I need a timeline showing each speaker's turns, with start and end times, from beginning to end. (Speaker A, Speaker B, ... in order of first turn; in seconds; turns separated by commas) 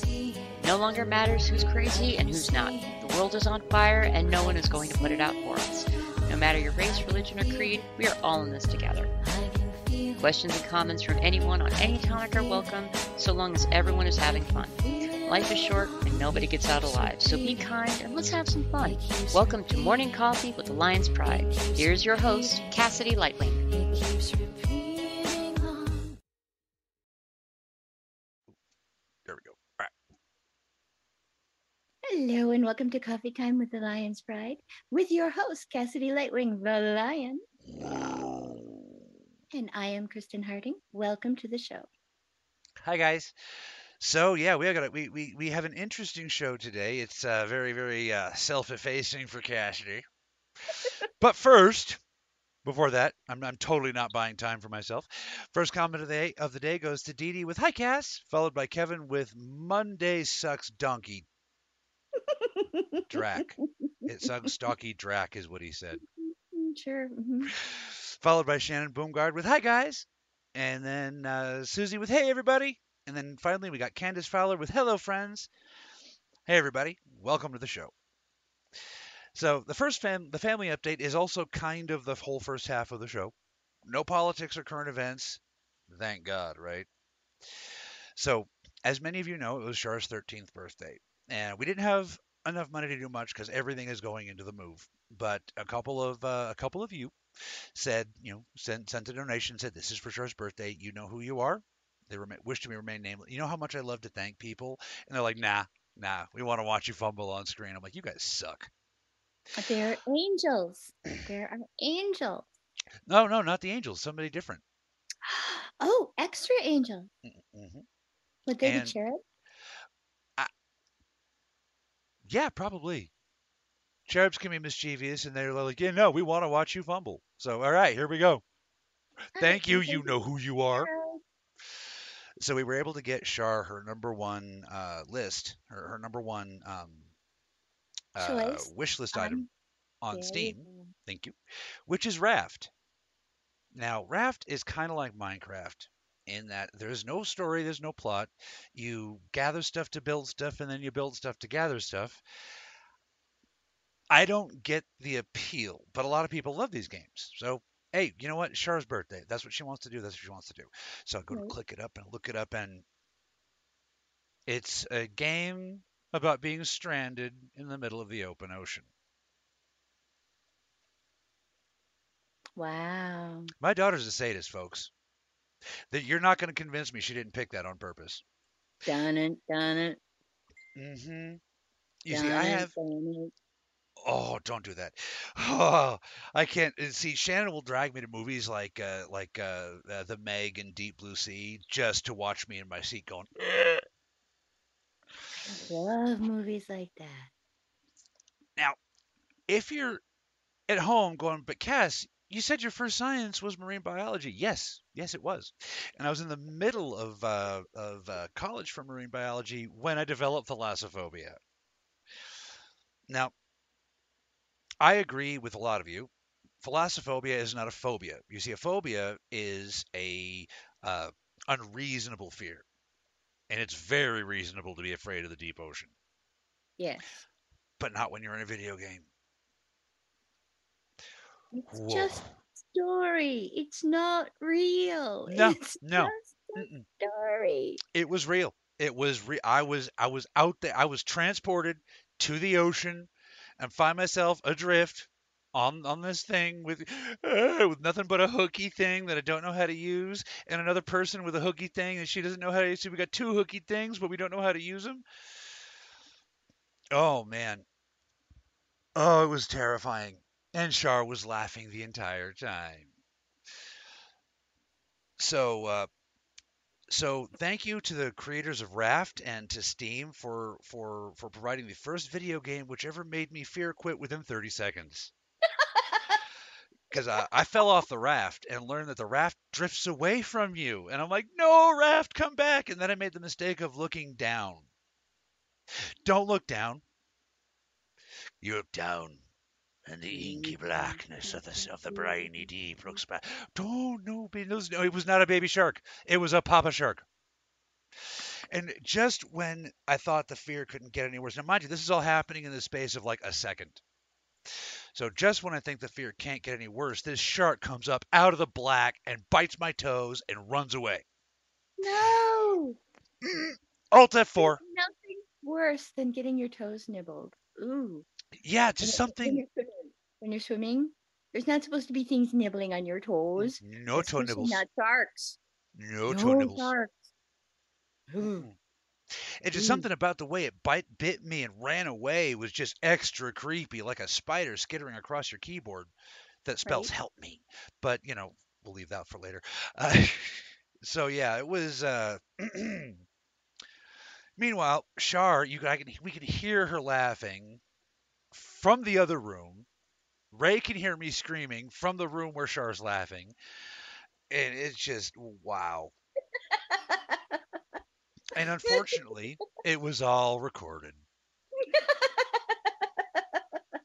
Speaker A: 0.6-9.2, Speaker A: 10.2-23.7, Speaker B: 29.3-29.9, Speaker C: 32.1-37.4, Speaker B: 37.7-38.8, Speaker C: 39.5-41.9, Speaker B: 42.8-43.3, Speaker B: 44.0-50.1, Speaker B: 51.2-52.0, Speaker B: 52.6-61.3, Speaker C: 62.3-63.6, Speaker B: 63.1-66.0, Speaker C: 66.0-67.5, Speaker B: 67.6-75.5, Speaker B: 76.5-77.9, Speaker B: 79.3-83.3, Speaker B: 83.9-86.9, Speaker B: 87.5-108.7, Speaker C: 109.6-112.5, Speaker B: 113.1-114.6, Speaker C: 115.2-117.1, Speaker B: 117.2-117.9, Speaker C: 118.5-119.2, Speaker B: 118.6-119.0, Speaker B: 122.2-123.1, Speaker B: 124.1-128.4, Speaker C: 129.4-130.2, Speaker B: 129.4-130.9, Speaker C: 130.7-131.2, Speaker B: 132.4-137.1, Speaker B: 138.2-139.5, Speaker C: 138.2-139.5, Speaker B: 140.0-141.4, Speaker C: 140.1-140.9, Speaker B: 141.9-142.7, Speaker B: 143.7-152.2, Speaker B: 154.1-162.8, Speaker B: 164.5-168.9, Speaker C: 172.6-173.5, Speaker B: 173.6-174.9, Speaker B: 175.9-178.2, Speaker C: 178.8-180.0, Speaker B: 180.8-181.4, Speaker B: 182.0-182.7, Speaker C: 182.1-183.3, Speaker B: 184.0-193.8, Speaker C: 195.5-197.3, Speaker B: 199.5-200.0, Speaker B: 200.7-211.4, Speaker B: 213.1-213.3, Speaker B: 214.8-216.1, Speaker B: 216.6-222.7, Speaker B: 223.5-225.9, Speaker C: 226.8-227.2, Speaker B: 227.8-229.1, Speaker C: 231.5-237.8, Speaker B: 231.7-232.3, Speaker B: 235.3-236.9, Speaker B: 237.9-255.1, Speaker B: 256.9-257.7, Speaker B: 259.0-262.9, Speaker B: 265.2-265.9, Speaker B: 266.9-275.1, Speaker C: 275.6-276.2, Speaker B: 276.9-284.7, Speaker B: 285.7-286.8, Speaker B: 288.4-289.2, Speaker B: 289.9-297.1, Speaker C: 290.1-293.0, Speaker B: 298.0-303.8, Speaker B: 304.5-311.1, Speaker C: 311.8-312.8, Speaker B: 313.2-314.6, Speaker C: 314.4-318.1, Speaker B: 318.4-319.4, Speaker C: 318.8-325.4, Speaker B: 323.4-324.6, Speaker B: 325.8-326.7, Speaker C: 326.1-327.1, Speaker C: 328.1-328.5, Speaker B: 329.1-335.9, Speaker C: 329.5-329.9, Speaker B: 336.4-343.0, Speaker C: 336.7-336.9, Speaker B: 344.4-347.6, Speaker B: 348.3-349.7, Speaker B: 350.3-353.4, Speaker B: 354.3-355.9, Speaker C: 356.5-357.4, Speaker B: 358.3-361.0, Speaker C: 358.6-358.9, Speaker C: 361.6-363.4